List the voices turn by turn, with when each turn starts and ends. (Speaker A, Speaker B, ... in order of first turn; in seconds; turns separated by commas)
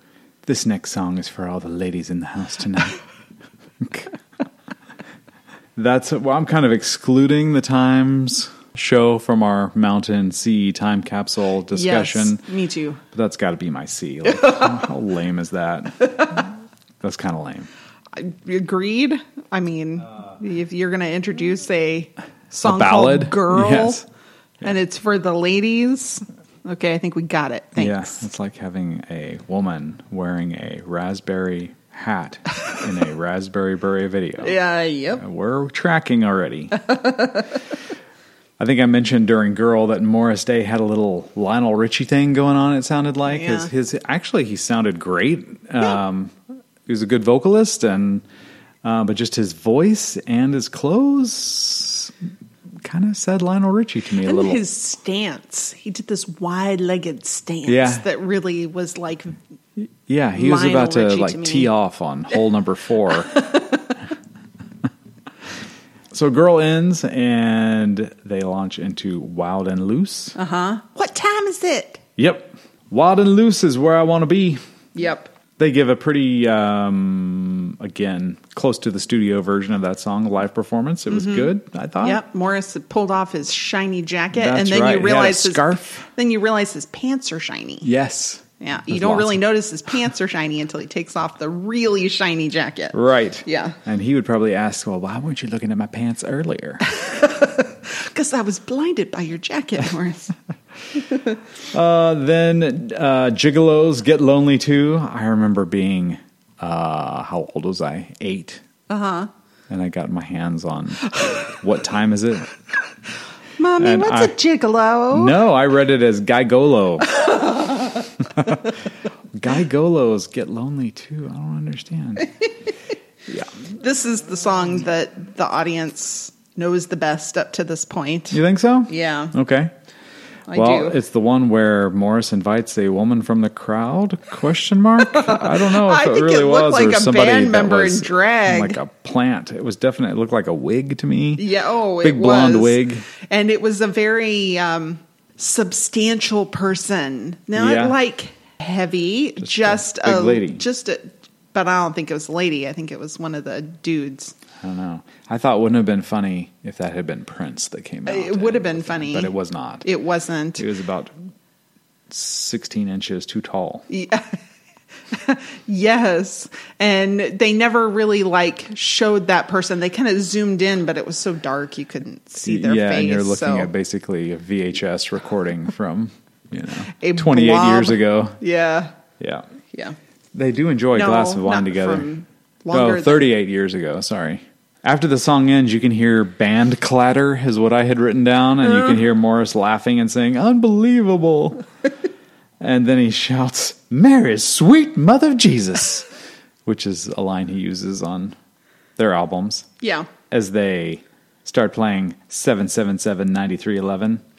Speaker A: 0.4-3.0, Speaker A: 3.8-4.1, Speaker A: 5.8-12.4, Speaker B: 11.7-13.0, Speaker A: 13.1-17.7, Speaker B: 18.1-24.0, Speaker A: 22.5-24.0, Speaker B: 24.6-28.2, Speaker A: 27.8-34.6, Speaker B: 34.4-35.2, Speaker A: 35.2-36.9, Speaker B: 36.8-37.4, Speaker A: 38.6-48.2, Speaker B: 43.3-43.7, Speaker A: 48.8-52.1, Speaker A: 52.8-54.6, Speaker B: 54.2-59.4, Speaker A: 57.6-58.0, Speaker A: 59.8-63.5, Speaker B: 60.4-61.7, Speaker B: 63.4-63.7, Speaker A: 66.1-70.3, Speaker B: 70.3-72.0, Speaker A: 72.2-74.6, Speaker B: 74.9-75.3, Speaker A: 75.6-82.2, Speaker B: 81.1-81.5, Speaker B: 82.0-87.9, Speaker A: 84.3-86.0, Speaker A: 87.8-89.4, Speaker B: 88.6-93.8, Speaker A: 92.9-96.8, Speaker B: 96.9-100.3, Speaker A: 101.7-108.6, Speaker B: 108.9-109.3, Speaker A: 109.7-112.5, Speaker B: 113.6-115.4, Speaker A: 113.8-114.3, Speaker A: 115.1-117.3, Speaker B: 117.2-118.0, Speaker A: 118.3-118.7, Speaker A: 119.3-122.3, Speaker B: 123.7-129.3, Speaker A: 128.3-129.7, Speaker B: 130.5-131.0, Speaker A: 130.5-141.5, Speaker B: 135.0-138.8, Speaker B: 141.4-154.3, Speaker A: 142.0-143.0, Speaker A: 147.6-147.9, Speaker A: 149.4-150.6, Speaker A: 154.6-159.8, Speaker B: 158.1-159.3, Speaker B: 159.8-160.6, Speaker A: 160.6-161.1, Speaker A: 162.1-163.8, Speaker B: 163.9-164.4, Speaker B: 165.1-173.7, Speaker A: 172.4-178.4, Speaker B: 176.9-178.9, Speaker A: 179.2-179.4, Speaker A: 180.3-182.1, Speaker B: 180.9-183.3, Speaker A: 182.7-191.6, Speaker A: 192.6-196.1, Speaker A: 196.7-198.3, Speaker A: 199.0-199.7, Speaker B: 199.8-200.1, Speaker A: 200.3-204.2